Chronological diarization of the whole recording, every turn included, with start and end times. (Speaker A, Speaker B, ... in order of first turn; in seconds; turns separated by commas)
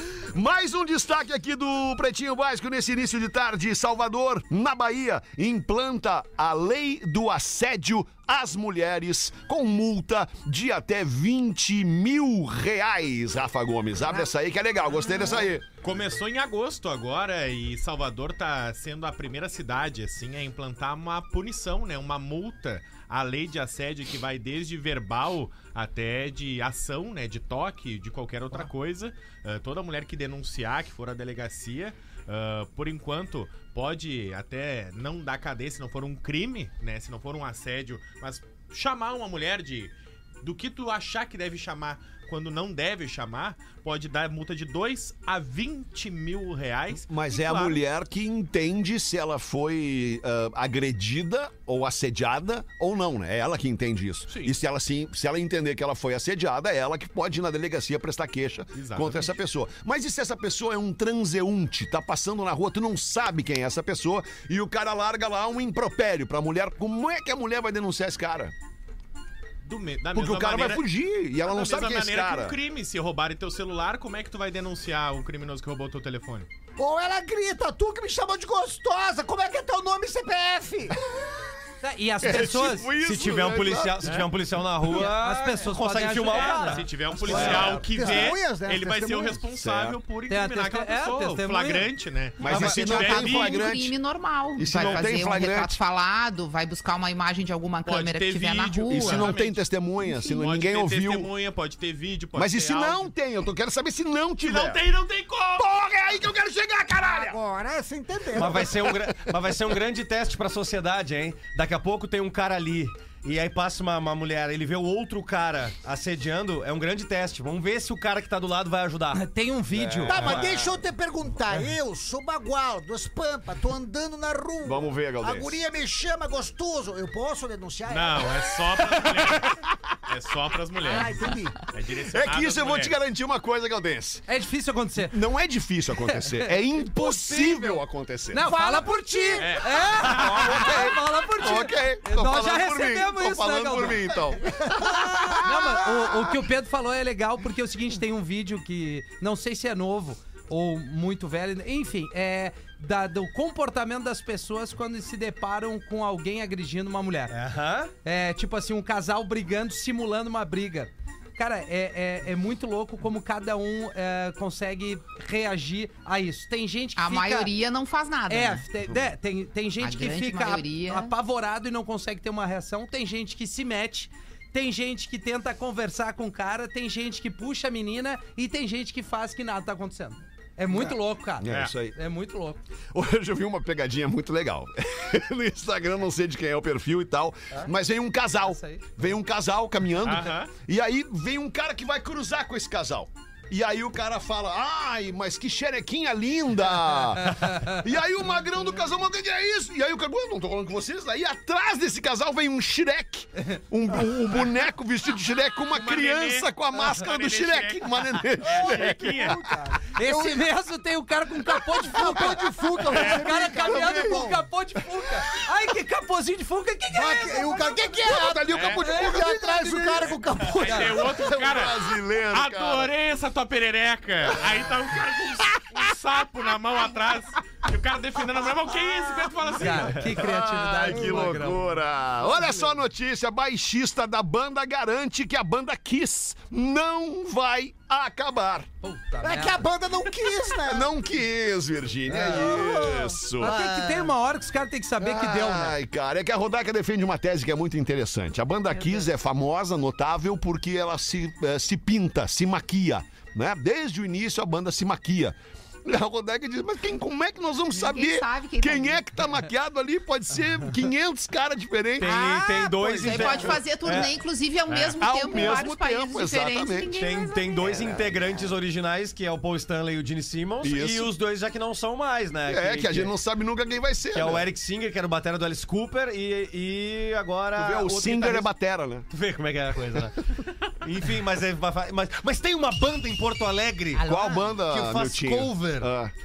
Speaker A: 0.1-15.7, Speaker B: 15.8-47.8, Speaker A: 47.0-68.5, Speaker B: 58.7-59.3, Speaker B: 69.6-70.8, Speaker A: 70.1-72.6, Speaker B: 71.4-76.5, Speaker C: 76.8-81.0, Speaker D: 81.8-82.9, Speaker A: 82.2-84.3, Speaker E: 83.0-87.8, Speaker D: 84.9-86.8, Speaker B: 86.3-93.7, Speaker C: 87.1-89.4, Speaker A: 87.3-87.8, Speaker A: 89.5-90.0, Speaker D: 90.3-91.9, Speaker A: 92.4-93.9, Speaker F: 92.5-99.3, Speaker A: 94.5-95.8, Speaker B: 94.7-95.1, Speaker B: 97.8-103.1, Speaker A: 98.9-101.3, Speaker A: 102.3-104.8, Speaker B: 104.4-105.6, Speaker A: 105.5-107.4, Speaker C: 107.0-108.7, Speaker E: 108.3-119.2, Speaker A: 108.7-109.3, Speaker D: 119.1-120.3, Speaker A: 119.7-120.7, Speaker C: 120.0-128.4, Speaker A: 124.6-125.6, Speaker B: 127.9-133.0, Speaker C: 130.8-131.6, Speaker A: 132.1-134.2, Speaker D: 134.3-135.2, Speaker A: 135.1-138.5, Speaker D: 136.2-137.8, Speaker D: 138.3-144.1, Speaker C: 138.4-139.4, Speaker B: 139.4-140.8, Speaker A: 139.9-146.3, Speaker D: 144.8-157.3, Speaker E: 157.3-157.9, Speaker D: 158.0-167.5, Speaker F: 166.9-168.6, Speaker D: 168.3-182.6, Speaker F: 169.8-171.1, Speaker A: 180.7-181.9, Speaker B: 181.5-181.7, Speaker A: 182.9-209.4, Speaker D: 188.4-188.8, Speaker B: 190.0-190.5, Speaker B: 205.7-209.4, Speaker C: 208.6-210.4, Speaker D: 209.9-217.8, Speaker C: 211.9-214.4, Speaker A: 213.0-214.4, Speaker C: 216.9-221.2, Speaker A: 217.5-220.1, Speaker B: 218.5-218.8, Speaker D: 218.8-220.1, Speaker B: 220.4-230.2, Speaker A: 220.7-222.9, Speaker D: 229.6-231.7, Speaker A: 230.1-238.7, Speaker C: 230.9-231.4, Speaker C: 232.3-232.7, Speaker D: 238.8-239.6, Speaker C: 239.2-240.9, Speaker A: 240.6-243.6, Speaker C: 242.1-243.6, Speaker D: 243.4-245.7, Speaker A: 245.0-262.1, Speaker F: 257.7-259.0, Speaker E: 262.0-264.1, Speaker F: 262.0-267.8, Speaker B: 264.7-265.0, Speaker A: 265.0-266.9, Speaker E: 265.3-265.6, Speaker E: 266.9-273.1, Speaker A: 267.6-268.2, Speaker A: 270.6-271.1, Speaker A: 272.5-274.4, Speaker E: 274.1-278.5, Speaker A: 277.6-279.1, Speaker E: 279.1-285.9, Speaker A: 284.0-286.1